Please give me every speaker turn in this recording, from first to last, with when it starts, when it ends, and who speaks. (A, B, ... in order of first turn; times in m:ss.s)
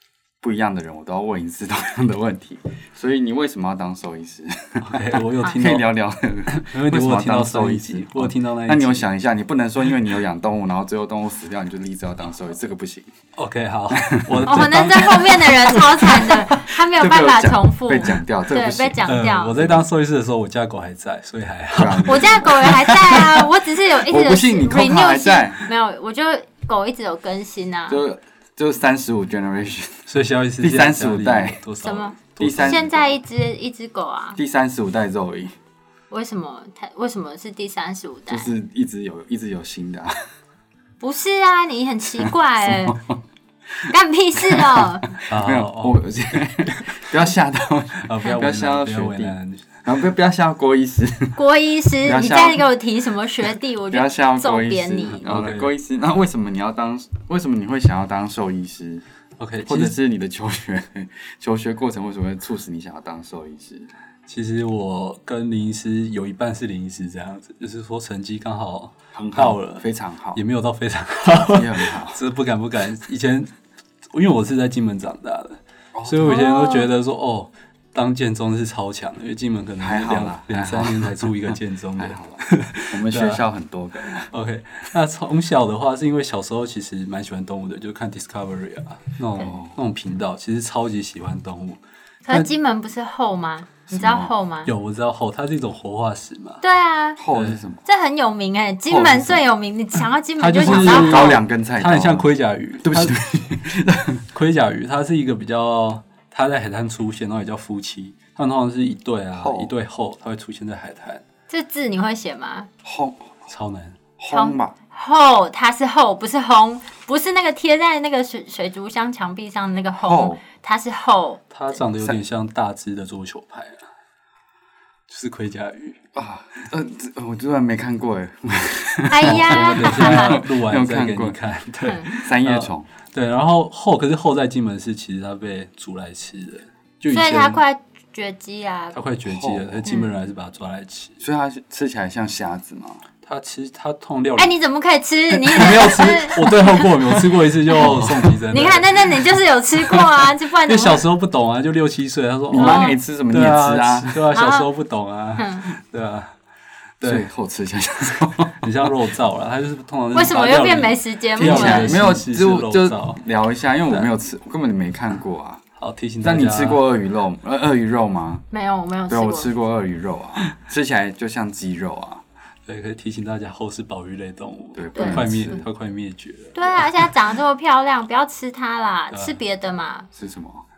0:00.4-0:13.1 A
0:04.8-0:05.9 B
0:06.5-0:09.1 B
0:13.4-0:16.5 B
0:13.9-0:14.8 A
0:14.5-0:19.6 C
0:16.0-0:19.8 A
0:19.0-0:22.7 B
0:21.7-0:23.4 A
0:22.1-0:28.0 C
0:24.0-0:25.7 A
0:27.9-0:31.6 A
0:30.1-0:32.9 B
0:31.8-0:34.4 C
0:32.4-0:33.2 A
0:34.4-0:35.6 A
0:36.1-0:38.5 C
0:38.3-0:40.1 A
0:41.0-0:43.0 C
0:42.2-0:43.2 A
0:43.9-0:45.2 C
0:44.4-0:51.4 A
0:45.3-0:46.0 B
0:48.0-0:49.8 B
0:51.4-0:55.3 C
0:52.0-0:52.7 A
0:53.9-0:59.0 A
0:55.2-0:55.7 B
0:59.4-0:59.9 B
0:59.6-1:03.9 A
1:04.3-1:13.5 B
1:09.1-1:10.4 A
1:11.5-1:12.2 A
1:14.1-1:23.4 B
1:16.0-1:16.4 A
1:16.2-1:16.9 C
1:19.8-1:24.3 A
1:24.1-1:32.5 B
1:29.4-1:29.8 A
1:32.3-1:34.7 C
1:33.9-1:34.3 A
1:34.7-1:36.6 B
1:36.6-1:37.2 C
1:37.2-1:37.8 A
1:37.3-1:37.6 B
1:37.8-1:41.4 C
1:38.9-1:39.5 A
1:40.4-1:43.2 B
1:40.6-1:42.3 A
1:42.8-1:44.3 A
1:44.3-1:51.2 B
1:49.4-1:49.7 A
1:51.5-1:52.7 C
1:52.8-1:53.5 A
1:53.5-1:54.0 B
1:54.2-1:54.8 A
1:54.3-2:01.4 C
2:00.0-2:00.4 A
2:01.5-2:03.8 B
2:05.1-2:06.0 B
2:06.2-2:11.4 A
2:09.1-2:10.4 C
2:09.2-2:17.6 B
2:11.8-2:12.1 C
2:12.1-2:12.9 A
2:17.1-2:19.0 C
2:18.9-2:21.2 B
2:19.3-2:19.9 A
2:21.2-2:23.0 A
2:23.2-2:24.6 B
2:24.4-2:31.0 C
2:25.3-2:36.3 B
2:27.8-2:28.4 A
2:32.5-2:34.3 A
2:32.6-2:33.0 C
2:34.3-2:34.7 C
2:35.4-2:35.7 C
2:37.0-2:37.3 B
2:37.0-2:38.9 A
2:38.6-2:43.2 B
2:40.1-2:42.0 C
2:41.4-2:45.6 A
2:45.8-2:46.8 B
2:46.2-2:48.4 A
2:48.5-2:49.5 C
2:49.1-2:52.2 A
2:52.7-2:57.2 B
2:54.8-2:55.7 A
2:55.0-2:55.6 C
2:56.6-3:00.1 C
2:59.1-2:59.4 B
3:00.2-3:00.6 A